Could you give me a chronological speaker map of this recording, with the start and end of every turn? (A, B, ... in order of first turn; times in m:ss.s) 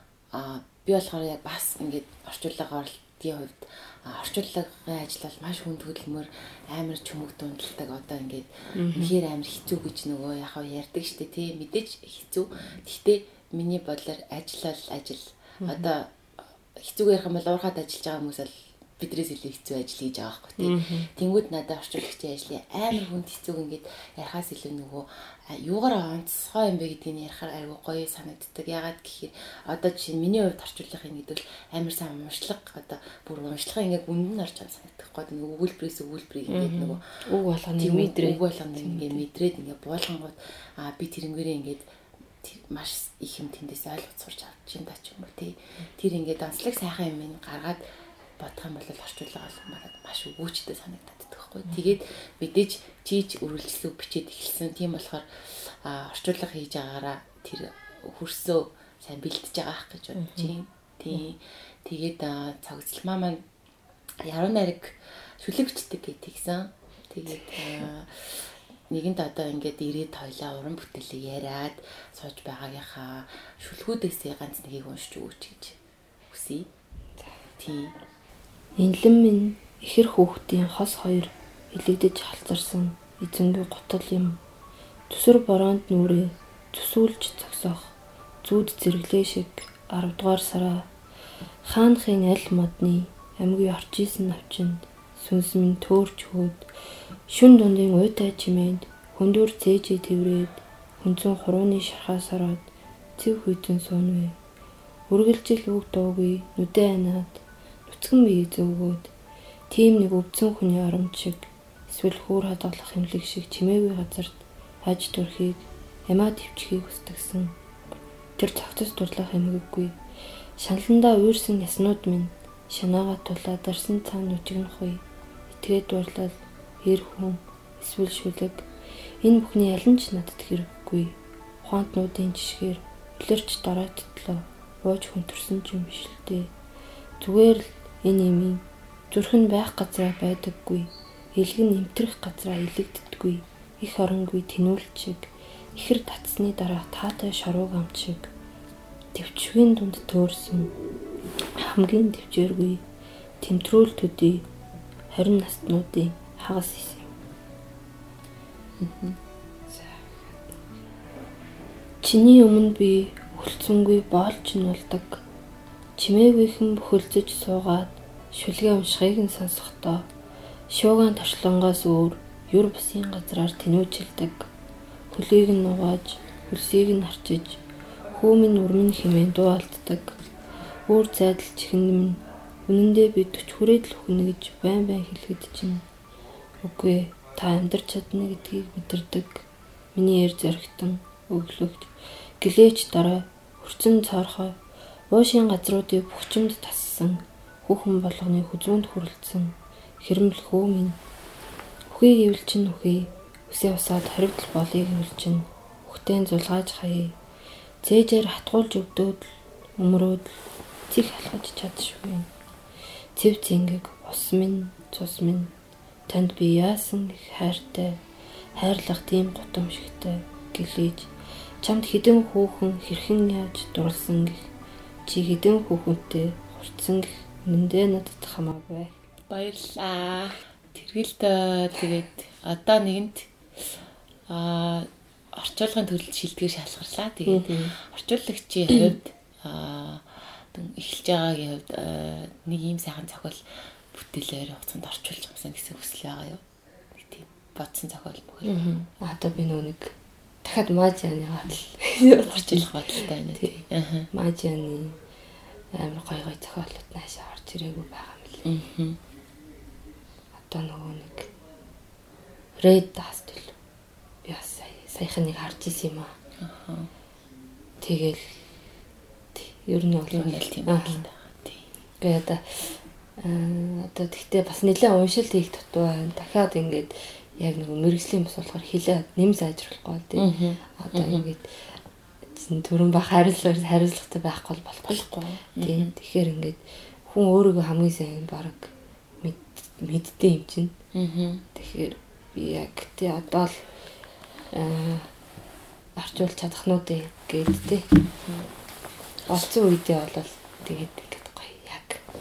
0:00.3-0:16.1 A
0:08.7-0:09.1 B
0:15.6-0:15.9 B
0:16.8-0:37.0 A
0:20.6-0:21.1 B
0:36.5-0:39.2 B
0:37.8-0:41.8 A
0:42.4-0:47.8 A
0:48.4-1:03.4 A
1:00.2-1:00.5 B
1:04.2-1:15.8 A
1:07.3-1:07.9 B
1:16.3-1:16.7 A
1:17.6-1:18.0 A
1:18.8-1:24.4 B
1:25.1-1:30.9 B
1:31.6-1:36.6 B
1:37.3-1:44.4 B
1:45.1-1:49.1 B
1:49.7-1:57.5 B
1:58.4-2:00.0 B
2:00.6-2:08.7 B
2:09.2-2:16.5 B
2:17.2-2:28.3 B
2:29.1-2:30.7 B
2:31.6-2:32.8 B
2:33.4-2:34.4 B
2:35.1-2:37.1 B
2:38.8-2:39.2 A
2:39.7-2:40.2 B
2:42.0-2:45.2 B
2:46.0-2:50.1 B
2:50.7-2:54.5 B
2:55.1-2:57.6 B
2:58.1-3:00.2 B
3:00.9-3:05.8 B
3:06.6-3:14.6 B
3:15.1-3:21.0 B
3:21.9-3:27.2 B
3:27.8-3:30.4 B
3:30.9-3:32.3 B
3:33.2-3:35.5 B
3:36.1-3:38.0 B
3:38.6-3:41.1 B
3:41.6-3:44.5 B
3:45.0-3:49.0 B
3:49.3-3:53.3 A
3:54.3-4:08.6 A
3:57.3-3:57.7 B
4:08.4-4:13.6 B
4:12.2-4:14.1 A
4:14.1-4:15.0 B
4:15.7-4:18.4 B
4:18.4-4:19.0 A
4:20.4-4:21.3 B
4:22.6-4:23.6 B
4:24.2-4:26.1 B
4:26.4-4:26.9 A
4:27.8-4:28.4 B
4:29.4-4:31.0 B
4:30.1-4:31.6 A
4:32.0-4:41.8 B
4:40.2-4:41.2 A
4:42.3-4:50.7 B
4:44.9-4:45.9 A
4:50.9-4:51.4 A
4:51.5-4:53.6 B
4:54.5-4:55.1 B
4:56.0-4:57.9 B
4:59.2-5:02.0 B